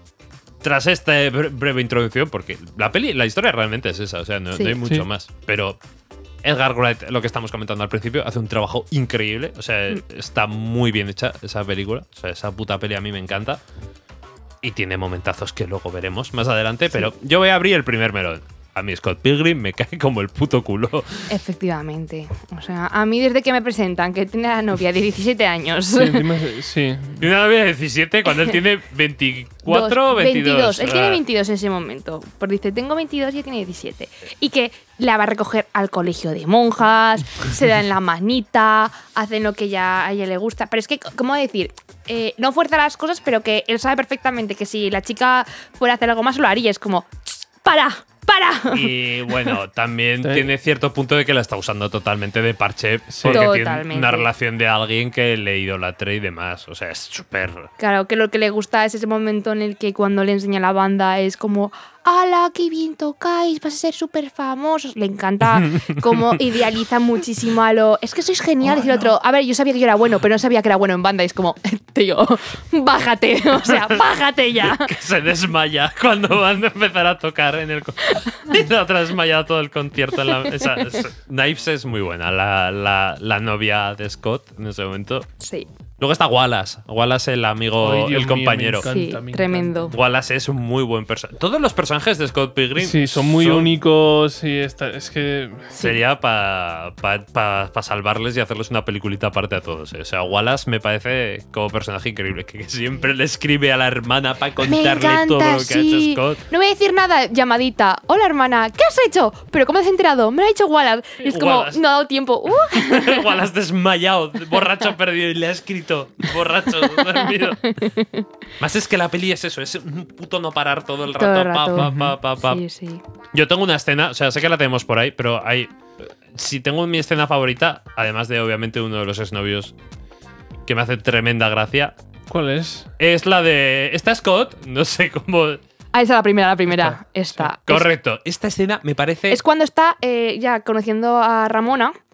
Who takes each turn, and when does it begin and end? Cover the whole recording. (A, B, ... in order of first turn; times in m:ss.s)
0:00.6-0:05.8 A
0:06.4-0:13.6 A
0:14.6-0:21.3 A
0:21.3-0:26.3 B
0:25.9-0:27.3 C
0:27.2-0:31.2 A
0:29.7-0:48.9 B
0:48.7-0:57.7 A
0:50.2-0:50.5 C
0:53.1-0:53.5 C
0:53.3-0:54.3 B
0:57.8-1:14.9 B
1:14.6-1:25.3 A
1:25.4-1:25.7 B
1:26.0-1:28.9 A
1:27.8-1:30.0 C
1:28.8-1:29.9 B
1:29.9-1:33.7 A
1:32.8-1:35.7 C
1:35.7-1:36.0 B
1:35.8-1:46.4 A
1:44.6-1:53.4 B
1:51.2-1:51.8 A
1:52.6-1:57.8 A
1:56.8-1:58.3 B
1:58.6-2:02.6 A
2:01.2-2:03.0 B
2:01.8-2:02.2 C
2:03.3-2:05.7 A
2:06.3-2:09.7 A
2:10.6-2:11.9 A
2:12.3-2:12.9 C
2:13.0-2:15.6 A
2:15.9-2:17.9 B
2:16.7-2:17.5 C
2:17.7-2:19.4 A
2:19.3-2:21.9 B